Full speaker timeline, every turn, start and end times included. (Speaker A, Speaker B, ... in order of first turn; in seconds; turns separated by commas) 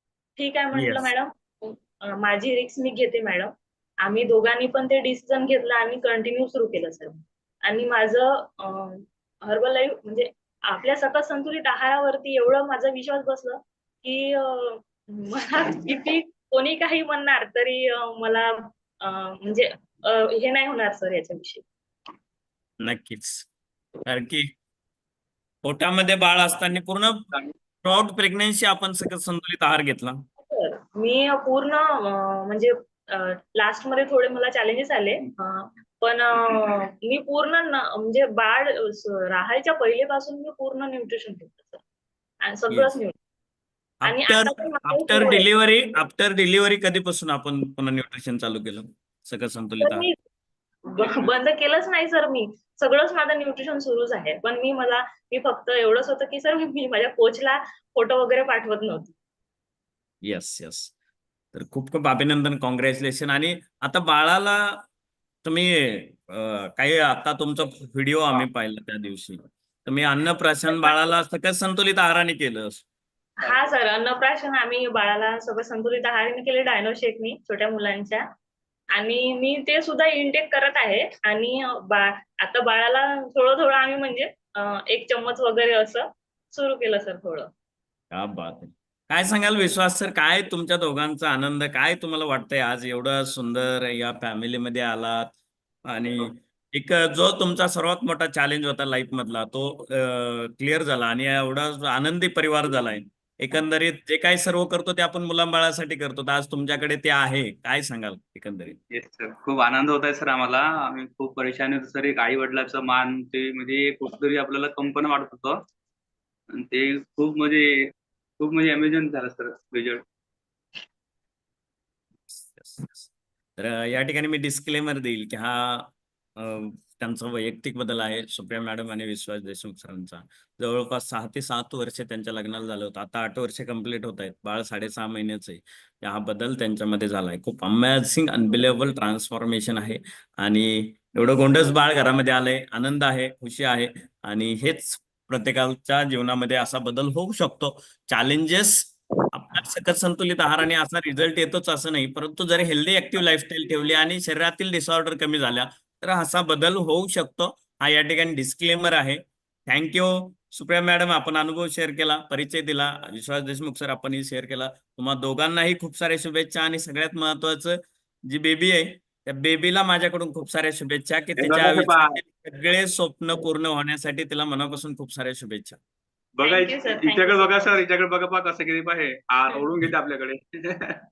Speaker A: 0.4-21.6, Speaker B: 0.7-1.1, Speaker B: 22.8-23.5, Speaker B: 24.0-24.5, Speaker B: 25.6-27.2, Speaker B: 27.8-30.2, Speaker A: 30.4-41.8, Speaker A: 42.4-43.1, Speaker B: 44.0-50.1, Speaker A: 44.0-45.5, Speaker A: 49.9-50.1, Speaker A: 50.9-59.1, Speaker B: 60.2-60.9, Speaker B: 61.5-64.8, Speaker B: 65.4-72.8, Speaker A: 70.7-71.1, Speaker A: 73.4-78.2, Speaker A: 78.9-87.5, Speaker B: 88.1-95.3, Speaker B: 95.8-108.8, Speaker C: 108.9-115.6, Speaker C: 116.5-120.0, Speaker B: 122.4-175.8, Speaker C: 171.4-172.2, Speaker C: 176.4-181.0, Speaker A: 176.4-177.8